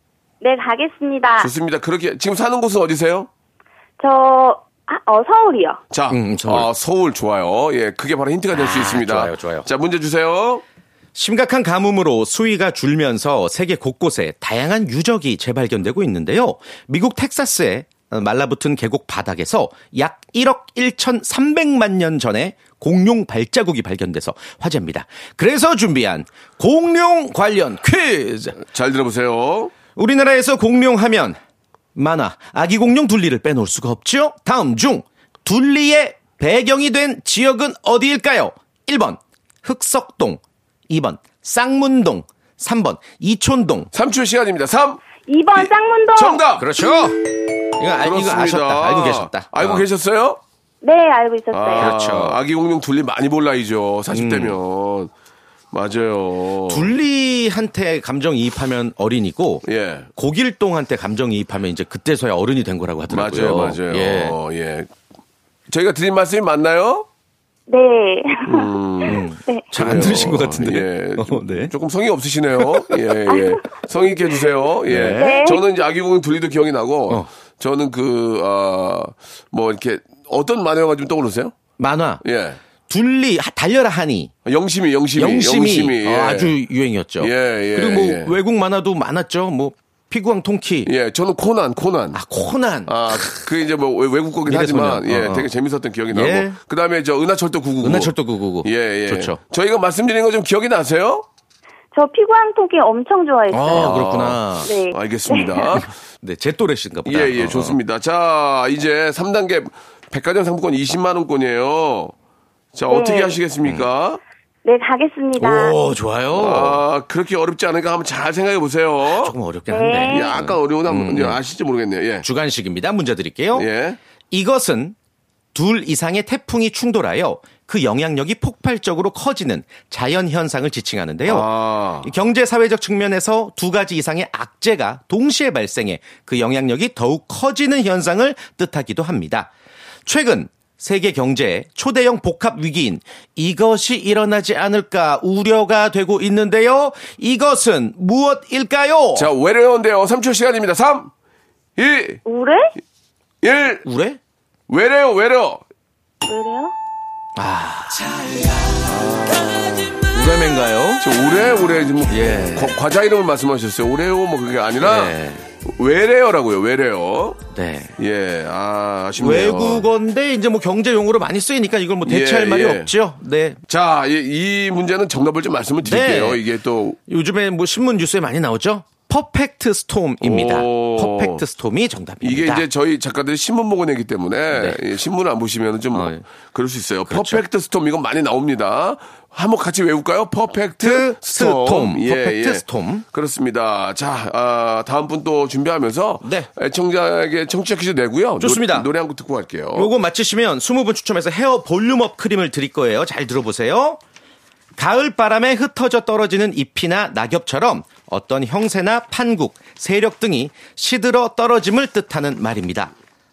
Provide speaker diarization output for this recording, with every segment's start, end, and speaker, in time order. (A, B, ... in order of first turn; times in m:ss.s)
0:00.4-0:01.5 A
0:01.4-0:03.3 B
0:04.0-0:05.8 A
0:05.9-0:10.6 B
0:06.1-0:06.7 C
0:08.5-0:09.7 C
0:11.2-0:28.6 C
0:28.6-0:29.7 B
0:30.0-0:31.4 C
0:32.0-0:43.9 C
0:43.9-0:45.0 B
0:45.3-0:46.4 A
0:45.6-0:46.8 B
0:46.6-0:49.8 C
0:48.0-0:50.4 B
0:50.8-0:51.9 A
0:51.5-0:55.1 B
0:51.8-0:52.4 C
0:54.1-0:54.6 C
0:55.7-0:56.9 B
0:56.7-0:59.6 C
0:59.6-1:00.1 B
1:00.2-1:04.4 C
1:03.1-1:04.9 B
1:05.7-1:07.1 B
1:07.7-1:08.7 A
1:08.5-1:21.5 B
1:09.0-1:11.7 C
1:14.9-1:15.4 C
1:15.2-1:15.6 A
1:21.8-1:22.2 C
1:22.2-1:22.6 B
1:22.9-1:24.3 C
1:24.5-1:26.6 B
1:25.2-1:30.9 C
1:27.2-1:28.4 B
1:30.8-1:32.2 B
1:32.1-1:33.4 C
1:32.9-1:41.3 B
1:34.5-1:35.5 C
1:36.1-1:36.6 C
1:37.8-1:39.4 C
1:41.9-1:44.1 A
1:43.5-1:44.7 C
1:43.7-1:45.9 B
1:44.6-1:45.6 A
1:46.2-1:47.8 C
1:47.0-1:52.1 B
1:52.7-1:54.2 B
1:52.9-1:53.4 A
1:54.6-1:55.8 A
1:55.4-1:56.8 C
1:56.3-1:59.4 B
1:59.1-2:01.4 C
1:59.7-2:00.3 A
2:00.1-2:02.3 B
2:02.2-2:03.7 C
2:03.5-2:04.0 B
2:04.3-2:05.0 C
2:05.5-2:11.5 C
2:11.3-2:12.1 B
2:12.0-2:19.5 C
2:20.1-2:29.3 C
2:29.2-2:31.1 B
2:31.8-2:32.2 B
2:32.3-2:32.8 A
2:33.4-2:33.8 B
2:33.8-2:34.2 C
2:34.7-2:35.6 B
2:36.3-2:36.7 A
2:37.4-2:38.1 C
2:38.9-2:39.9 B
2:40.1-2:41.0 C
2:41.0-2:47.4 B
2:42.1-2:42.7 C
2:44.8-2:45.4 C
2:47.5-2:48.0 C
2:48.0-2:49.9 B
2:49.2-2:53.6 C
2:52.0-2:52.9 B
2:53.7-2:57.0 B
2:55.8-2:56.4 C
2:57.1-3:02.7 C
3:00.2-3:01.4 B
3:02.2-3:19.9 B
3:04.5-3:04.8 C
3:05.9-3:06.2 C
3:07.1-3:07.4 C
3:10.8-3:13.0 C
3:16.2-3:16.5 C
3:18.4-3:18.9 C
3:19.8-3:24.0 C
3:24.8-3:32.9 C